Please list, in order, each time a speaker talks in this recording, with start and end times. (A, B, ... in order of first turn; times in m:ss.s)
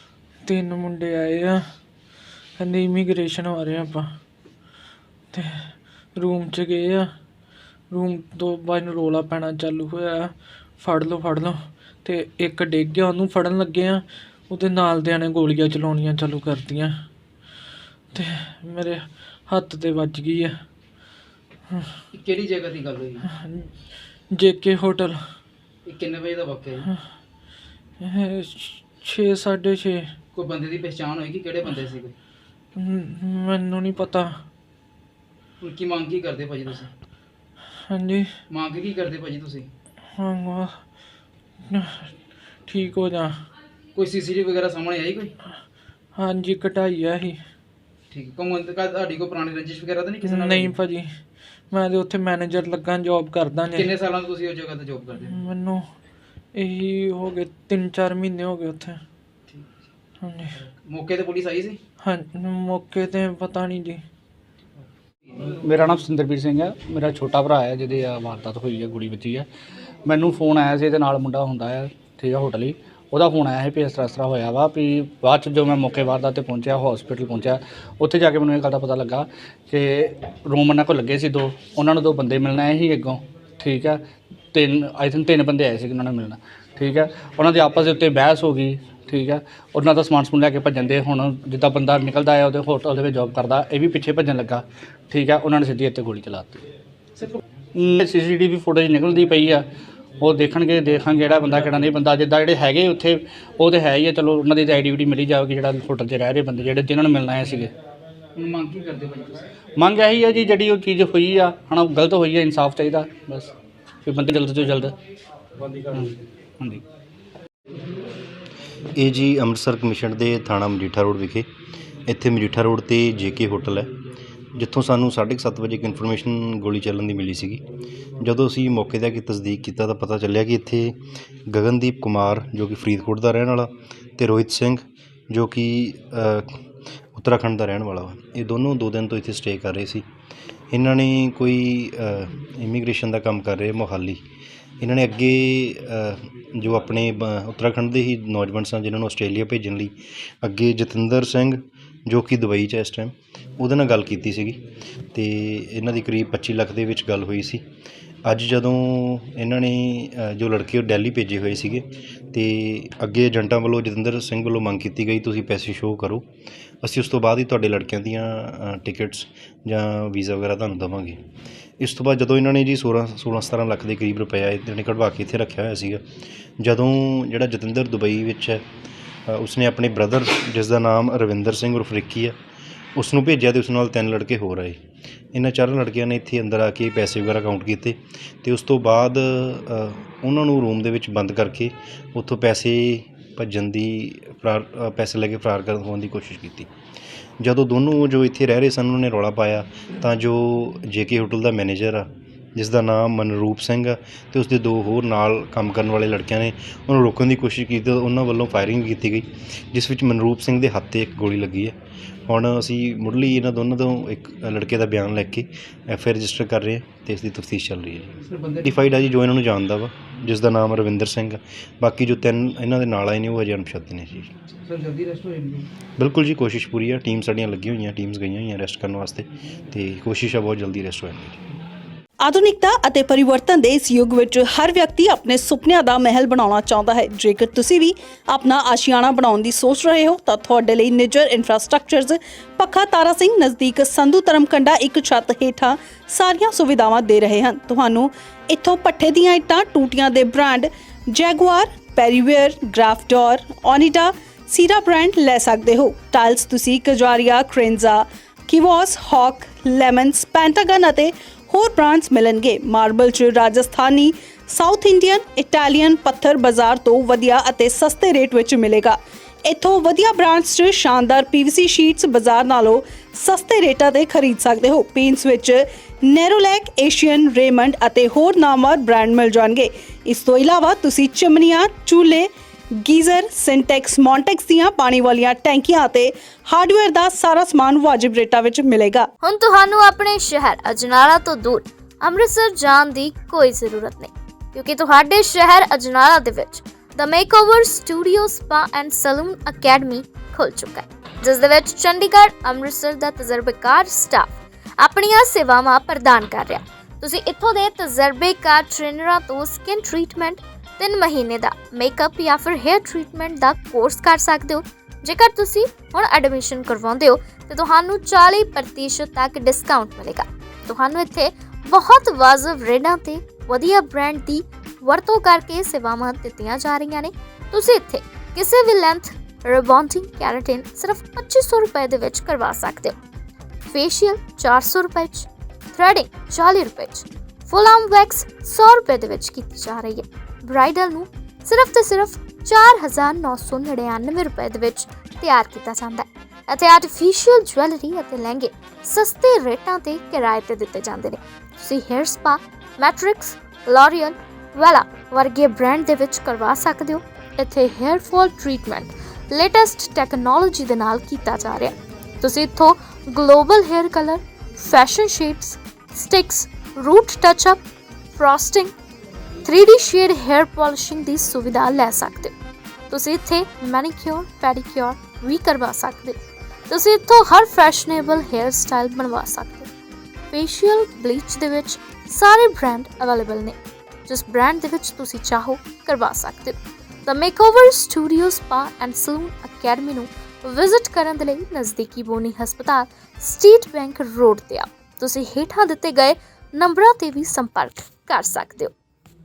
0:00.4-0:01.6 A
0:02.6-0:04.1 A
0:05.3-0:07.1 A
0:07.9-0:16.9 A
0:18.1-0:20.6 A
0:22.1-0:23.2 B
0:23.3-0:23.7 A
0:24.3-0:25.2 A
0:25.8-0:26.9 B
0:28.0-0:30.1 A
0:30.3-0:32.1 B
0:32.8-0:34.4 A
0:35.6-0:36.9 B
0:37.9-0:38.3 A
0:38.5-0:39.7 B
0:40.2-0:40.8 A
0:41.6-0:42.1 A
0:42.6-0:43.4 A
0:43.9-0:45.3 B
0:46.1-0:47.4 A
0:48.1-0:50.8 B
0:50.2-0:51.1 A
0:51.7-0:53.9 A
0:53.7-0:55.4 B
0:55.2-0:55.9 A
0:56.5-0:59.0 A
1:00.2-1:00.6 A
1:00.8-1:01.8 B
1:02.0-1:04.0 A
1:05.6-1:09.5 C
1:10.0-1:24.0 C
1:24.5-1:36.6 C
1:37.7-1:39.7 C
1:40.2-1:47.7 C
1:48.4-1:49.4 B
1:49.8-1:53.5 C
1:54.0-1:54.9 C
1:55.9-1:56.8 C
1:59.0-2:01.5 D
2:02.1-2:03.9 D
2:04.6-2:07.6 D
2:08.2-2:16.5 D
2:17.1-2:20.0 D
2:20.7-2:24.2 D
2:24.8-2:34.6 D
2:35.1-2:37.6 D
2:38.2-2:46.2 D
2:46.8-2:51.2 D
2:51.8-2:56.0 D
2:56.6-2:58.6 D
2:59.3-3:02.4 D
3:03.0-3:04.8 D
3:05.3-3:16.7 D
3:17.4-3:31.7 D
3:32.3-3:44.3 D
3:38.3-3:38.6 B
3:44.6-3:45.7 B
3:46.0-3:51.4 D
3:52.2-4:49.1 E
4:49.2-5:32.9 F
5:33.7-6:07.6 F
6:08.1-6:08.7 F
6:09.4-6:12.3 F
6:12.9-6:16.2 F
6:16.7-6:19.7 F
6:20.3-6:38.7 F